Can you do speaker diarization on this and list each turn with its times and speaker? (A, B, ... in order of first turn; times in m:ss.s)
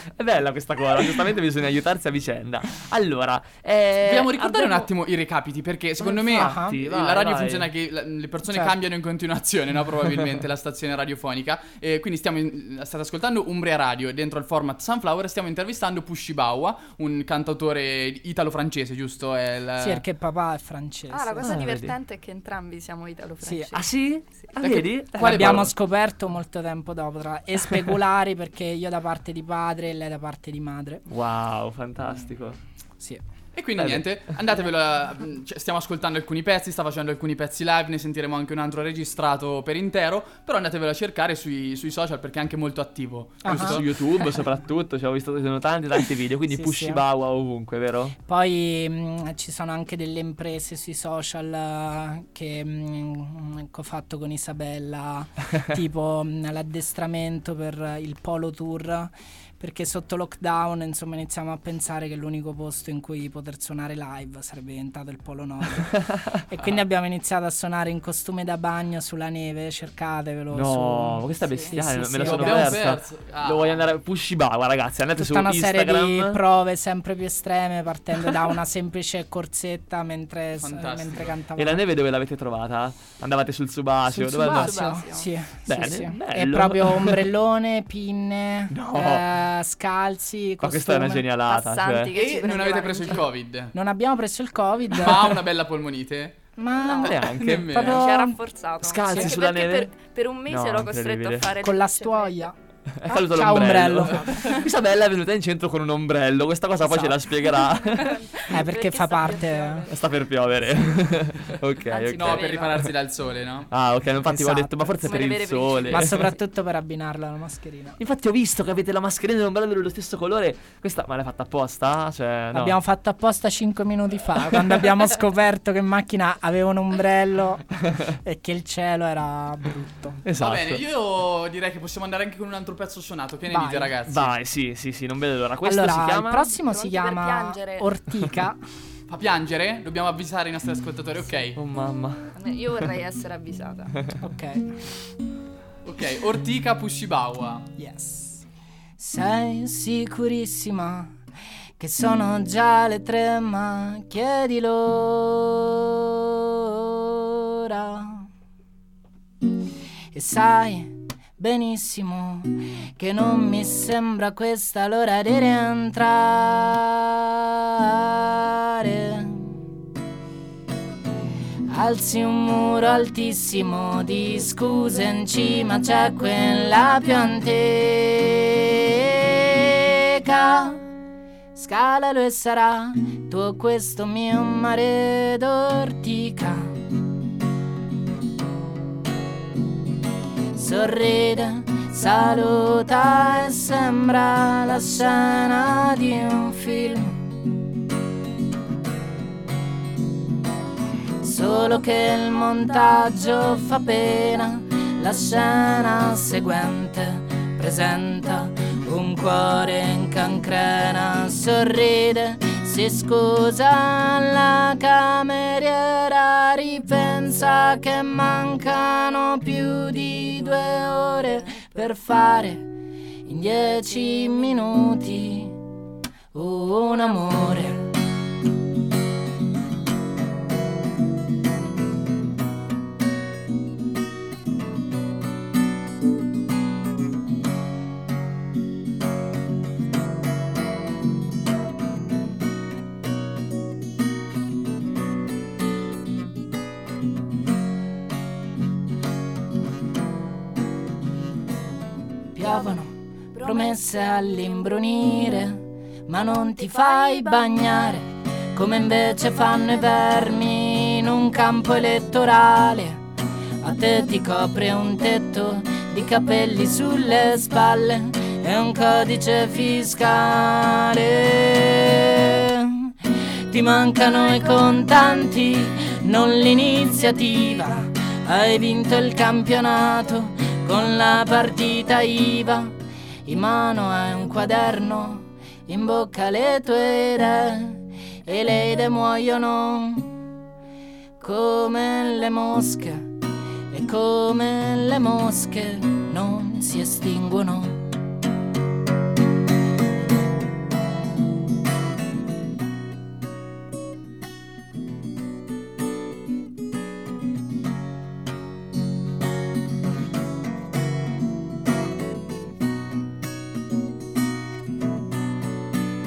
0:00.2-0:04.9 A
0:04.0-0:20.0 B
0:06.0-0:07.7 A
0:06.4-0:06.7 C
0:19.8-0:21.4 C
0:21.1-0:24.5 D
0:21.4-0:22.0 A
0:23.7-0:25.7 A
0:24.6-0:25.7 B
0:25.4-0:31.0 C
0:31.1-0:32.6 A
0:33.6-0:43.8 B
0:33.8-0:34.2 A
0:43.4-0:43.7 C
0:43.4-0:48.1 A
0:46.5-0:47.0 C
0:48.3-1:05.9 C
1:06.5-1:12.5 C
1:10.5-1:16.4 A
1:11.4-1:11.9 D
1:12.2-1:13.8 B
1:15.2-1:21.8 C
1:20.6-1:21.3 B
1:21.6-1:24.8 A
1:24.1-1:31.2 C
1:24.4-1:25.5 D
1:25.6-1:27.2 A
1:28.7-1:29.3 A
1:30.6-1:32.1 A
1:31.3-1:33.3 D
1:32.1-1:33.7 B
1:33.7-1:35.2 C
1:34.9-1:36.4 B
1:36.6-1:37.0 C
1:36.7-1:37.2 D
1:37.0-1:41.5 A
1:37.3-1:38.0 B
1:37.7-1:42.5 D
1:41.6-1:42.5 C
1:43.0-1:48.2 A
1:43.2-1:44.1 C
1:44.0-1:44.6 D
1:46.9-1:47.1 C
1:47.4-1:51.2 D
1:48.6-1:49.8 C
1:49.9-1:52.9 A
1:51.9-1:52.9 D
1:52.2-1:53.7 B
1:53.7-1:56.3 A
1:54.3-1:54.8 C
1:54.9-1:56.6 D
1:55.9-1:58.0 C
1:58.0-2:02.8 A
2:02.5-2:07.7 C
2:08.2-2:10.2 C
2:10.2-2:10.8 A
2:10.4-2:14.3 B
2:13.5-2:13.9 C
2:14.1-2:16.5 A
2:15.6-2:18.6 C
2:16.4-2:18.0 D
2:19.1-2:21.6 B
2:21.6-2:22.3 A
2:22.4-2:24.1 D
2:24.2-2:24.6 C
2:25.8-2:27.7 B
2:27.8-2:28.4 C
2:29.0-2:31.2 C
2:31.8-2:35.9 C
2:36.8-2:38.2 C
2:40.1-2:49.5 C
2:51.7-3:00.8 C
3:01.6-3:06.8 C
3:10.5-3:17.2 C
3:21.2-3:42.6 C
3:43.2-3:45.6 C
3:46.3-3:47.8 C
4:12.3-4:23.0 C
4:23.6-4:32.9 C
4:33.5-4:42.7 C
4:43.2-4:50.2 C
4:51.2-4:53.1 C
4:53.7-4:57.8 C